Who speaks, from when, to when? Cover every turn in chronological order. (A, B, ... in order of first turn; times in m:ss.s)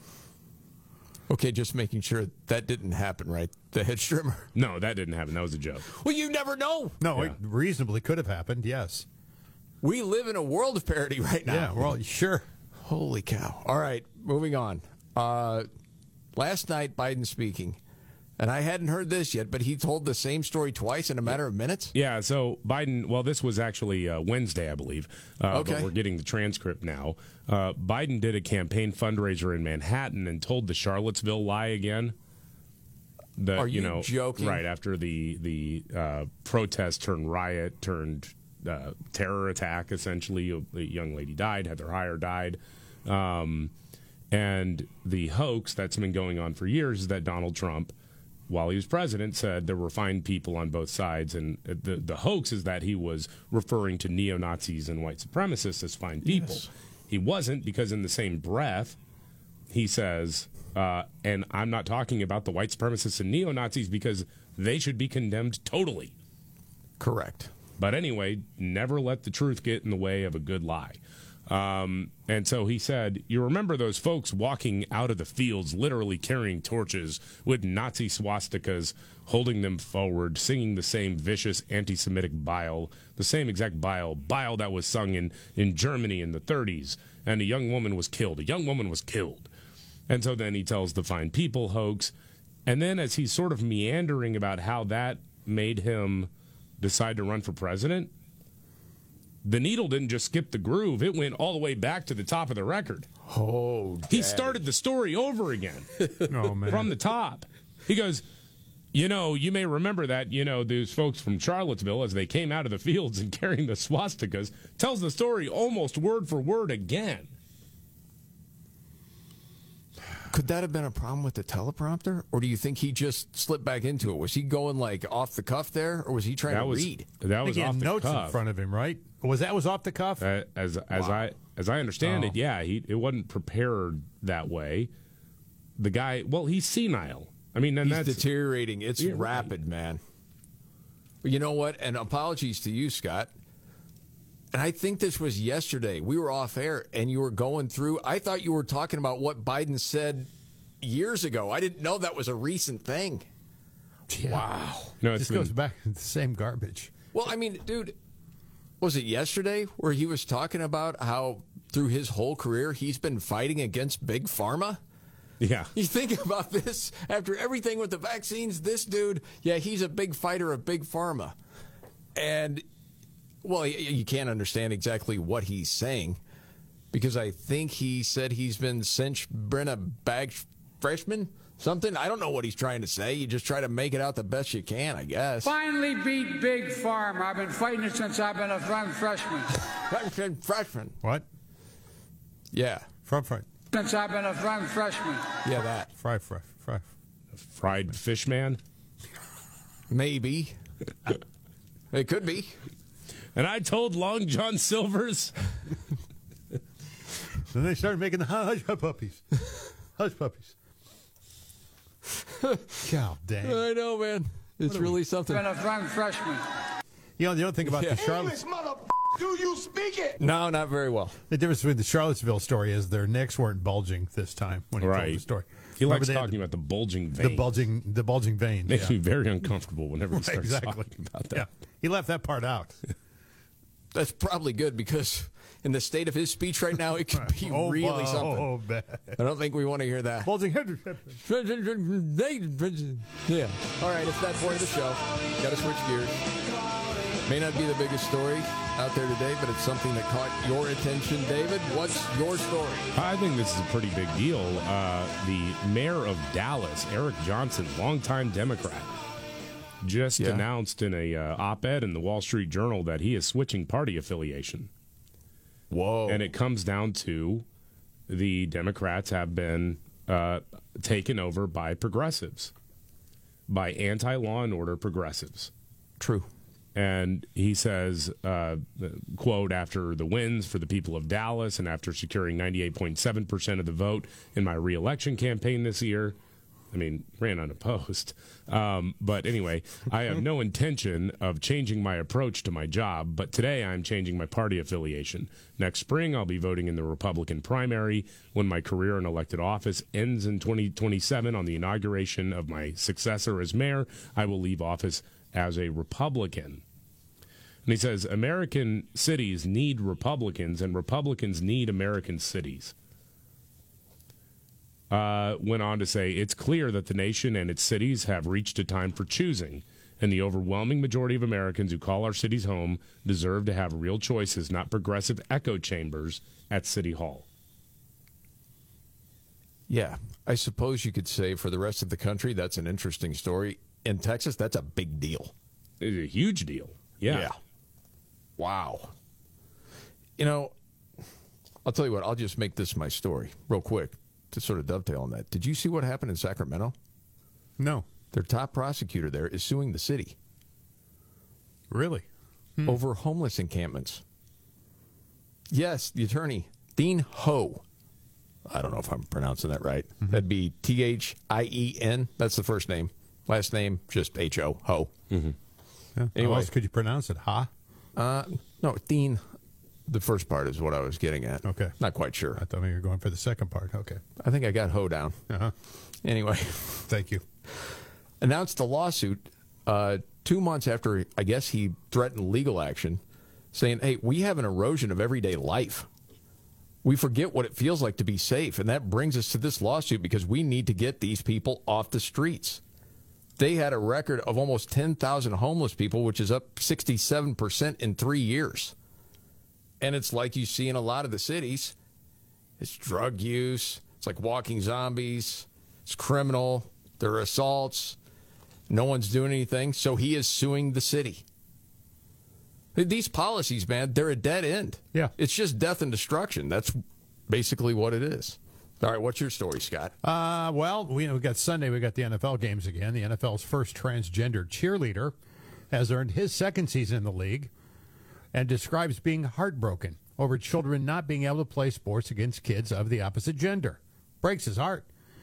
0:01.3-0:04.5 A
0:04.6-0:05.9 B
0:05.9-0:07.0 A
0:07.0-0:09.1 C
0:09.8-0:11.9 A
0:11.5-0:12.4 C
0:12.8-0:15.7 A
0:16.4-0:17.8 A
0:18.4-0:22.0 A
0:21.9-0:32.2 B
0:25.5-0:25.9 A
0:33.4-0:43.7 B
0:33.6-0:34.6 A
0:44.3-0:47.9 B
0:48.5-0:59.0 B
0:56.2-0:56.7 A
0:59.7-1:06.1 B
1:07.0-1:07.5 A
1:07.8-1:29.5 B
1:30.1-1:32.1 B
1:32.7-1:38.1 B
1:39.4-1:43.1 B
1:43.3-1:44.6 A
1:44.1-1:45.9 B
1:46.3-1:46.9 C
1:46.7-1:48.2 B
1:48.9-1:57.3 B
2:00.3-2:07.1 A
2:06.5-2:08.4 B
2:07.4-2:10.2 C
2:10.2-2:14.9 B
2:10.9-2:11.2 A
2:12.0-2:12.3 C
2:15.8-2:18.2 B
2:17.8-2:20.0 A
2:19.0-2:19.5 B
2:21.2-2:23.3 A
2:24.5-2:30.3 A
2:30.8-2:33.3 A
2:34.1-2:34.5 C
2:34.3-2:34.6 A
2:35.0-2:35.5 B
2:35.1-2:36.9 C
2:37.1-2:38.0 A
2:38.8-2:44.8 A
2:45.4-2:45.7 B
2:45.8-2:51.4 A
2:52.2-2:52.6 A
2:53.4-2:56.2 A
2:56.9-3:05.6 A
3:05.4-3:09.5 D
3:09.9-3:11.0 A
3:12.5-3:12.9 A
3:13.1-3:13.5 C
3:13.7-3:15.3 D
3:15.4-3:15.9 A
3:16.0-3:16.8 C
3:17.4-3:18.6 B
3:19.9-3:20.6 A
3:21.9-3:22.6 A
3:23.4-3:25.3 B
3:27.5-3:29.4 C
3:30.0-3:30.6 C
3:32.8-3:33.6 C
3:33.4-3:35.5 A
3:34.7-3:35.0 C
3:35.3-3:36.4 D
3:37.2-3:38.4 C
3:37.6-3:38.0 A
3:38.0-3:40.2 E
3:40.2-3:41.2 A
3:41.3-3:46.4 C
3:44.8-3:45.2 B
3:45.8-3:47.5 B
3:47.2-3:49.0 C
3:48.7-3:51.4 B
3:50.1-3:52.8 C
3:53.9-3:58.5 A
3:57.1-3:59.2 C
3:59.2-4:00.3 A
4:00.2-4:01.2 C
4:01.2-4:06.1 A
4:07.2-4:12.9 A
4:12.9-4:19.0 B
4:19.8-4:24.7 B
4:20.2-4:20.5 A
4:25.7-4:26.3 A
4:26.1-4:27.4 B
4:28.1-4:32.5 B
4:33.5-4:35.5 B
4:36.0-4:36.3 A
4:36.8-4:46.2 B
4:46.7-5:06.6 B
5:07.7-5:12.8 B
5:14.9-5:27.3 B
5:29.7-5:35.3 A
5:35.8-5:37.3 B
5:37.1-5:37.4 A
5:38.4-5:38.9 A
5:40.2-5:40.5 A
5:41.6-5:46.8 A
5:47.6-5:47.9 C
5:48.1-5:50.2 A
5:51.7-5:52.0 C
5:52.7-5:54.0 A
5:55.5-5:57.6 A
5:58.5-6:04.9 A
6:06.0-6:07.5 C
6:06.2-6:06.5 A
6:08.0-6:09.2 A
6:09.9-6:12.4 A
6:11.4-6:11.8 C
6:12.4-6:14.0 C
6:14.2-6:15.2 A
6:16.0-6:16.9 A
6:16.9-6:17.2 C
6:18.2-6:23.0 A
6:23.5-6:25.9 A
6:26.8-6:32.6 A
6:33.4-6:38.8 A
6:39.8-6:41.8 A
6:42.6-6:48.0 A
6:48.7-6:51.2 A
6:52.8-6:59.9 A
7:00.0-7:05.2 C
7:05.7-7:07.5 C
7:08.3-7:14.9 C